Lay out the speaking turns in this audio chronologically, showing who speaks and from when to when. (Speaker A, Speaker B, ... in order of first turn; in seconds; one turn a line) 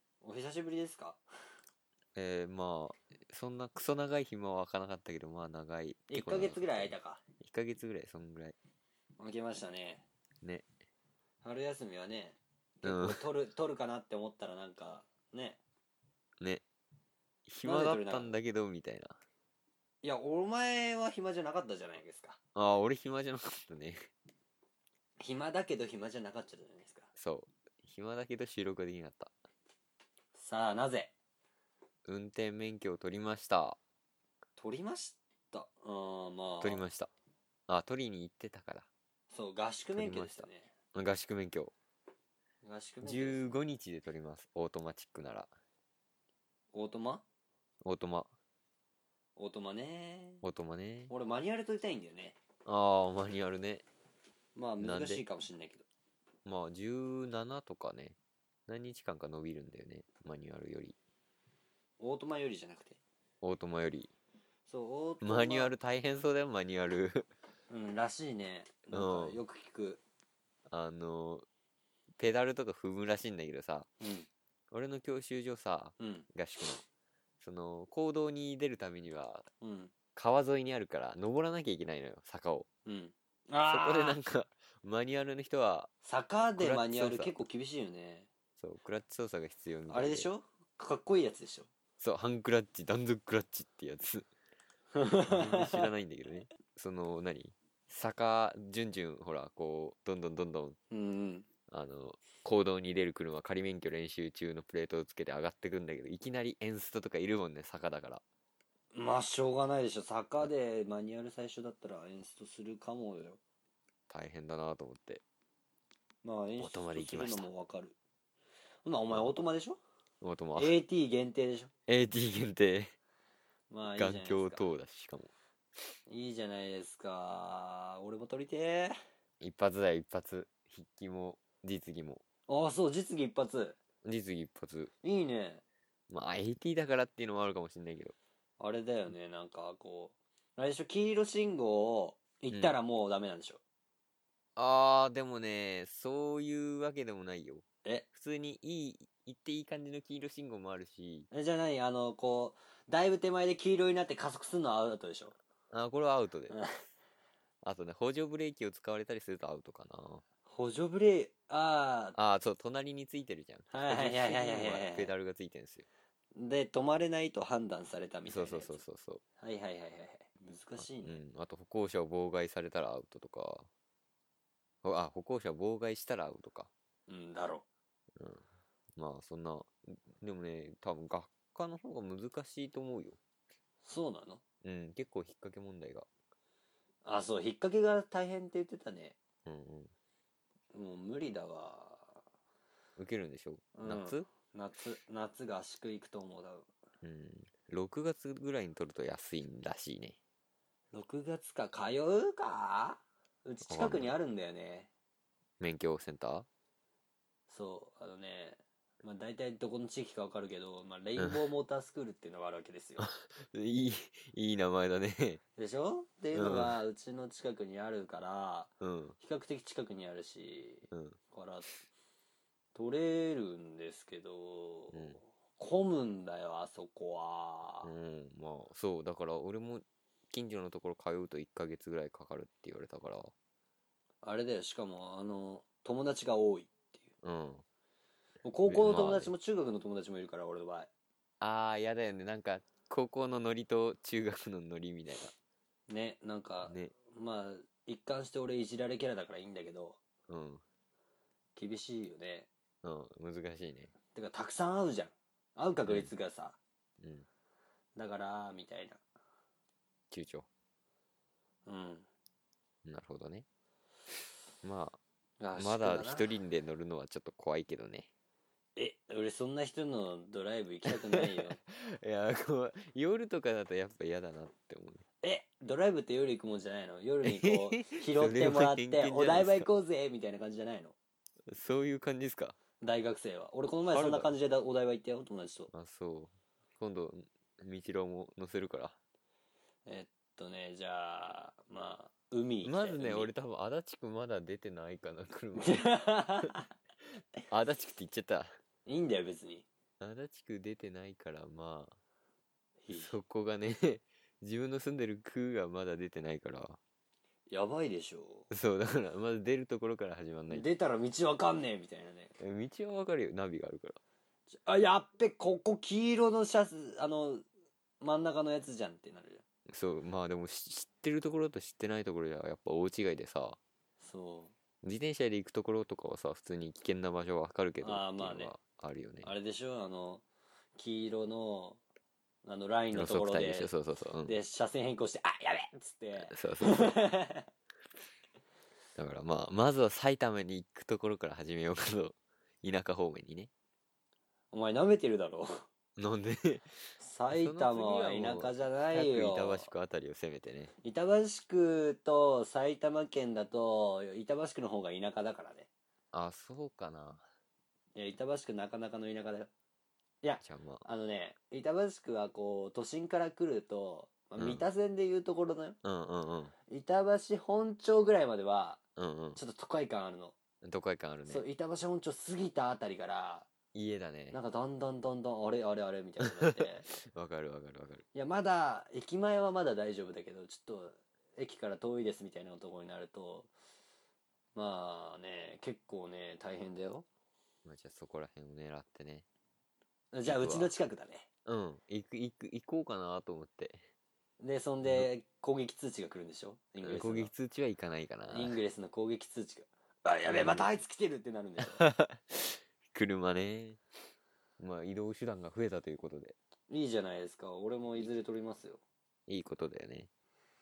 Speaker A: 0.2-1.2
Speaker B: 2.1-8.5
Speaker A: 6.1-7.2
Speaker A: 9.2-10.1
Speaker A: 11.4-15.6
Speaker B: 12.8-13.2
Speaker B: 17.5-19.2
Speaker A: 17.6-18.3
Speaker A: 20.0-22.4
Speaker B: 22.6-24.0
Speaker A: 25.2-27.1
Speaker B: 27.2-29.3
Speaker A: 30.3-31.1
Speaker B: 32.0-33.8
Speaker A: 34.6-36.8
Speaker B: 36.6-37.1
Speaker B: 37.7-38.9
Speaker A: 39.3-40.7
Speaker B: 40.0-41.7
Speaker A: 42.6-43.4
Speaker B: 43.0-45.5
Speaker A: 46.7-47.2
Speaker B: 47.8-48.3
Speaker A: 49.4-50.4
Speaker B: 50.4-51.1
Speaker A: 51.1-52.4
Speaker B: 52.7-53.8
Speaker A: 54.5-55.9
Speaker B: 54.8-55.2
Speaker B: 56.5-58.2
Speaker B: 58.7-61.0
Speaker A: 62.0-63.0
Speaker B: 63.4-64.1
Speaker A: 64.7-65.7
Speaker B: 65.2-67.3
Speaker A: 67.7-70.0
Speaker B: 68.9-69.4
Speaker B: 70.7-71.5
Speaker B: 72.2-73.9
Speaker A: 74.0-74.3
Speaker B: 74.7-76.8
Speaker A: 76.0-76.3
Speaker B: 77.4-79.5
Speaker A: 79.6-79.9
Speaker B: 80.1-82.7
Speaker A: 82.8-84.2
Speaker B: 83.7-85.9
Speaker A: 86.0-88.3
Speaker B: 86.6-87.4
Speaker B: 88.6-90.3
Speaker A: 89.9-91.7
Speaker B: 92.0-94.3
Speaker A: 94.9-95.9
Speaker B: 95.3-100.8
Speaker A: 100.9-101.5
Speaker B: 101.7-108.2
Speaker A: 108.9-113.4
Speaker B: 114.1-115.2
Speaker A: 116.2-118.0
Speaker B: 116.6-117.5
Speaker A: 118.8-119.8
Speaker B: 120.2-120.8
Speaker A: 120.6-121.7
Speaker B: 121.9-122.9
Speaker A: 123.7-124.7
Speaker B: 123.9-125.3
Speaker A: 126.1-129.0
Speaker B: 129.4-132.2
Speaker A: 132.5-133.8
Speaker B: 134.0-134.9
Speaker A: 135.0-135.6
Speaker B: 136.1-138.2
Speaker A: 138.6-143.6
Speaker B: 142.5-142.8
Speaker B: 144.6-151.3
Speaker A: 151.3-155.4
Speaker B: 155.7-156.6
Speaker B: 157.6-160.2
Speaker A: 160.5-162.2
Speaker B: 162.2-165.9
Speaker A: 163.7-165.1
Speaker A: 166.3-168.8
Speaker B: 168.3-169.2
Speaker A: 169.4-171.2
Speaker B: 170.8-173.7
Speaker B: 174.8-176.7
Speaker A: 177.1-177.7
Speaker B: 178.2-178.4
Speaker B: 179.0-183.2
Speaker A: 183.8-184.4
Speaker B: 184.6-186.1
Speaker A: 187.1-189.2
Speaker B: 189.5-189.9
Speaker A: 190.7-192.2
Speaker B: 193.0-194.3
Speaker A: 193.8-196.7
Speaker B: 197.0-200.2
Speaker A: 200.9-204.9
Speaker B: 203.7-204.2
Speaker B: 205.6-206.5
Speaker A: 207.5-213.1
Speaker B: 213.0-215.4
Speaker A: 215.6-221.8
Speaker B: 216.3-216.8
Speaker B: 218.8-219.2
Speaker B: 220.9-221.2
Speaker A: 222.7-227.9
Speaker B: 224.9-225.2
Speaker B: 227.8-233.3
Speaker A: 234.2-237.0
Speaker B: 237.2-237.6
Speaker A: 238.4-240.9
Speaker B: 238.7-239.3
Speaker B: 241.4-245.3
Speaker A: 245.9-250.0
Speaker B: 246.6-246.9
Speaker B: 250.3-250.6
Speaker A: 251.6-252.5
Speaker B: 252.8-253.9
Speaker A: 254.1-256.6
Speaker B: 255.9-256.1
Speaker B: 257.0-257.3
Speaker A: 257.9-259.0
Speaker B: 260.1-260.5
Speaker A: 261.7-262.1
Speaker B: 262.9-263.4
Speaker B: 264.6-265.0
Speaker A: 265.4-266.3
Speaker B: 265.6-268.1
Speaker A: 268.8-271.6
Speaker B: 270.9-275.0
Speaker A: 275.2-280.9
Speaker B: 277.2-279.7
Speaker B: 281.5-282.6
Speaker A: 282.8-285.7
Speaker B: 283.9-284.3
Speaker B: 285.7-289.0
Speaker A: 289.9-293.3
Speaker B: 292.6-296.5
Speaker A: 295.6-296.6
Speaker B: 297.5-298.5
Speaker A: 298.9-299.7
Speaker B: 300.0-301.9
Speaker A: 302.8-303.1
Speaker B: 302.9-306.8
Speaker A: 307.5-308.5
Speaker B: 308.5-310.7
Speaker A: 310.5-312.4
Speaker B: 312.4-314.0
Speaker A: 314.5-317.4
Speaker A: 318.0-319.4
Speaker B: 319.7-323.6
Speaker A: 324.0-324.5
Speaker B: 324.8-329.3
Speaker A: 327.8-328.6
Speaker A: 329.2-330.2
Speaker A: 330.8-331.8
Speaker A: 332.4-333.7
Speaker B: 332.9-334.4
Speaker A: 334.2-337.5
Speaker B: 336.2-337.0
Speaker B: 338.9-343.5
Speaker A: 344.5-345.6
Speaker B: 346.0-346.8
Speaker A: 347.0-349.7
Speaker B: 347.3-350.7
Speaker A: 350.8-355.7
Speaker B: 356.1-357.2
Speaker A: 357.9-359.5
Speaker A: 360.2-365.8
Speaker B: 360.4-360.9
Speaker B: 364.4-364.6
Speaker B: 365.8-366.5
Speaker A: 366.7-368.8
Speaker B: 369.0-369.4
Speaker A: 369.4-370.4
Speaker B: 370.6-371.4
Speaker A: 371.3-373.5
Speaker B: 373.7-374.4
Speaker A: 374.3-376.9
Speaker B: 376.2-376.5
Speaker B: 377.1-378.1
Speaker A: 378.1-383.5
Speaker A: 384.6-387.1
Speaker B: 387.6-389.2
Speaker A: 390.1-391.3
Speaker B: 390.2-390.7
Speaker B: 391.4-393.9
Speaker A: 394.4-397.3
Speaker B: 394.8-395.1
Speaker B: 396.8-398.6
Speaker A: 398.3-401.8
Speaker B: 400.3-400.7
Speaker B: 401.7-402.4
Speaker B: 402.9-403.8
Speaker B: 404.6-406.4
Speaker A: 406.7-408.8
Speaker B: 409.3-410.1